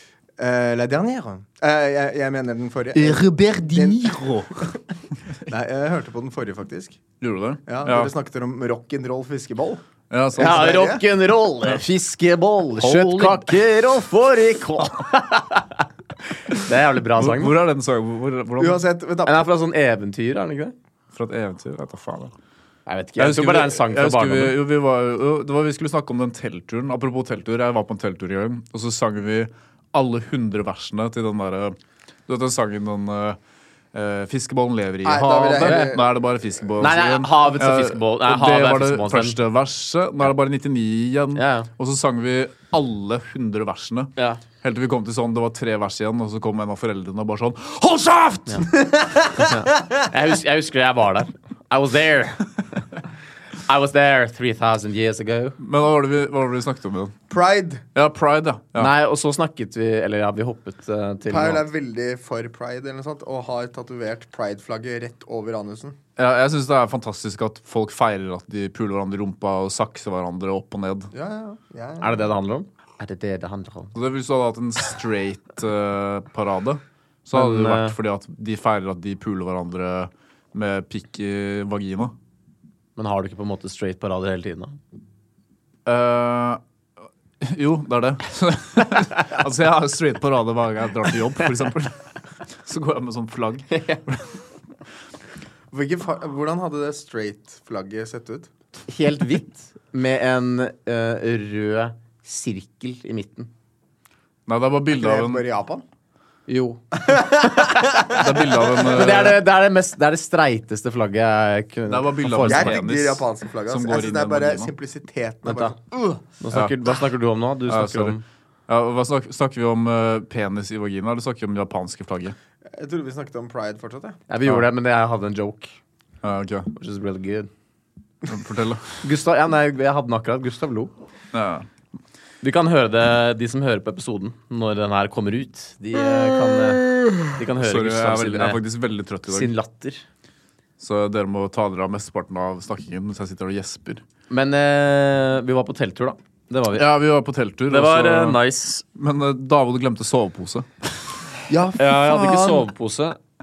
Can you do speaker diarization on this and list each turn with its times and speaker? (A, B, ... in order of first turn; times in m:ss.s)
0:00.4-0:04.8 A
0:02.9-0:04.7 B
0:05.5-0:07.0 A
0:07.2-0:08.1 B
0:07.7-0:09.8 A
0:10.1-0:10.8 B
0:10.4-0:11.1 A
0:10.4-0:15.9 C
0:12.8-0:13.5 B
0:16.4-0:17.6 C
0:17.2-0:18.8 B
0:18.6-0:19.5 A
0:19.2-0:20.8 C
0:21.1-0:22.3 B
0:22.9-0:24.6 C
0:23.2-0:33.4 B
0:33.9-0:48.8 B
0:35.0-0:36.2 A
0:35.6-0:36.0 C
0:36.8-0:39.4 C
0:41.4-0:41.7 C
0:44.2-0:44.4 C
0:48.8-0:49.3 A
0:49.3-0:52.5 C
0:53.7-0:55.6 C
0:55.6-0:57.2 B
0:57.3-0:57.8 A
0:58.0-0:58.9 B
0:58.8-1:01.6 C
1:01.3-1:06.0 A
1:06.2-1:11.1 B
1:11.1-1:12.2 A
1:12.0-1:14.0 C
1:14.0-1:22.1 B
1:17.3-1:18.0 C
1:23.0-1:24.8 C
1:25.9-1:26.6 B
1:27.4-1:32.0 B
1:32.6-1:34.2 B
1:33.7-1:34.0 C
1:35.7-1:38.5 A
1:38.9-1:43.5 C
1:44.5-1:45.4 B
1:44.9-1:45.8 A
1:46.5-1:47.3 C
1:47.1-1:48.2 A
1:48.0-1:49.4 B
1:48.8-1:52.8 C
1:51.9-1:54.7 B
1:52.4-1:56.2 A
1:55.5-1:55.8 C
1:56.4-1:58.2 C
1:57.7-2:02.4 B
2:02.7-2:04.2 A
2:04.3-2:05.7 C
2:06.2-2:06.7 B
2:06.7-2:07.5 C
2:08.3-2:09.0 B
2:09.0-2:10.9 C
2:11.3-2:11.7 B
2:12.4-2:18.6 C
2:16.1-2:19.5 B
2:19.3-2:20.0 C
2:20.8-2:24.0 B
2:24.3-2:26.9 C
2:26.7-2:28.4 B
2:27.7-2:28.8 C
2:29.0-2:30.7 B
2:31.5-2:32.7 A
2:31.8-2:33.2 C